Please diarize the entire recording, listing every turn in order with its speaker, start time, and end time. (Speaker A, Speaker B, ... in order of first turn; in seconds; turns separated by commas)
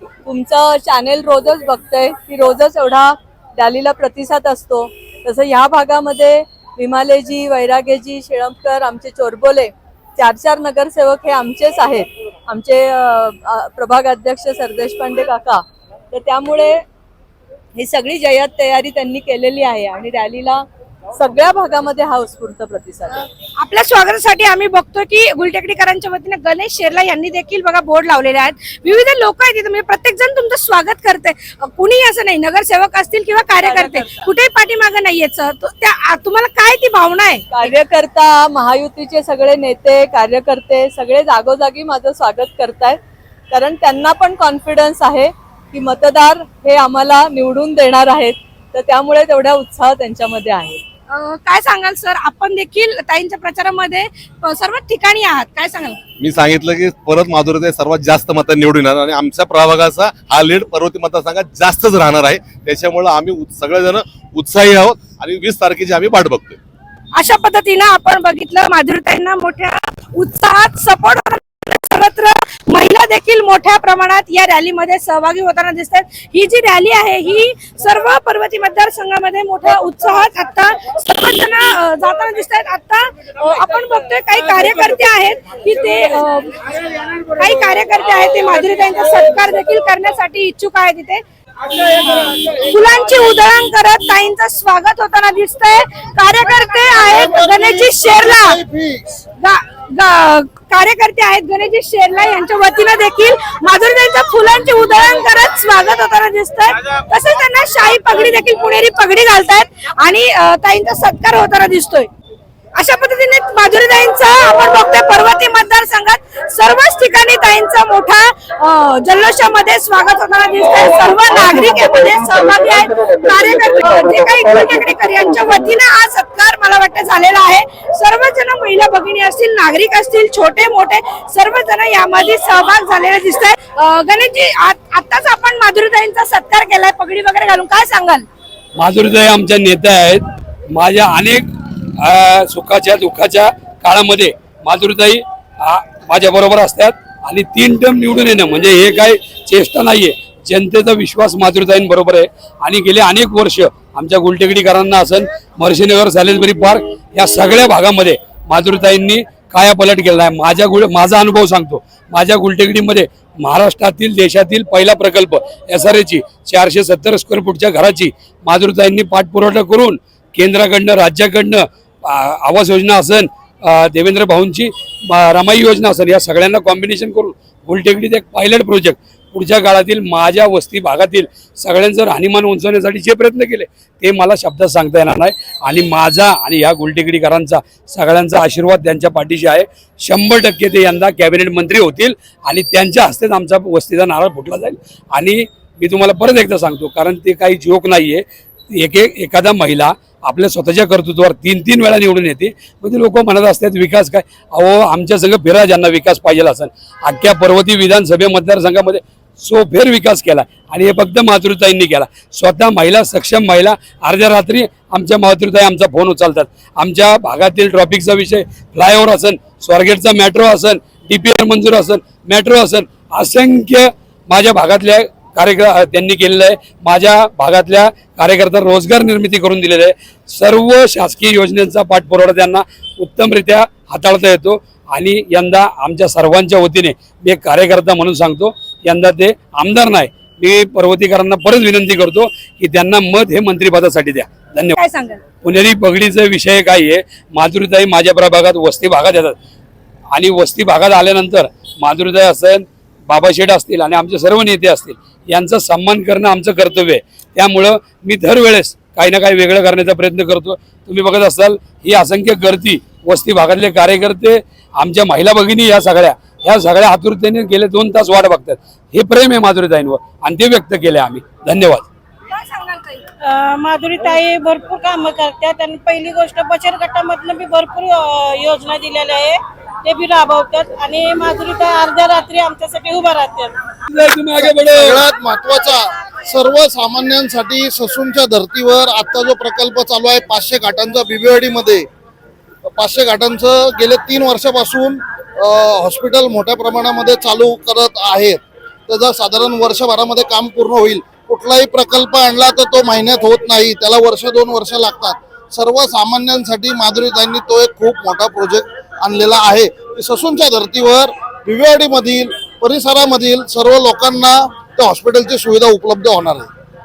Speaker A: 0.3-15.6, Speaker A: 16.1-16.8, Speaker A: 17.8-20.6, Speaker A: 21.2-23.2, Speaker B: 23.6-37.5, Speaker A: 33.8-34.2, Speaker A: 37.5-43.0, Speaker A: 43.5-50.8, Speaker B: 51.1-56.0, Speaker C: 56.2-66.6, Speaker B: 67.2-86.6, Speaker B: 87.3-91.2, Speaker B: 91.9-98.6, Speaker D: 97.0-99.2, Speaker B: 99.4-112.1, Speaker B: 112.8-138.3, Speaker E: 138.8-141.5, Speaker E: 142.0-244.8, Speaker B: 244.8-245.2, Speaker E: 245.4-249.3, Speaker E: 250.1-271.9, Speaker B: 272.3-273.0, Speaker F: 273.2-283.6, Speaker E: 283.9-285.0, Speaker D: 284.4-291.9, Speaker D: 292.8-316.5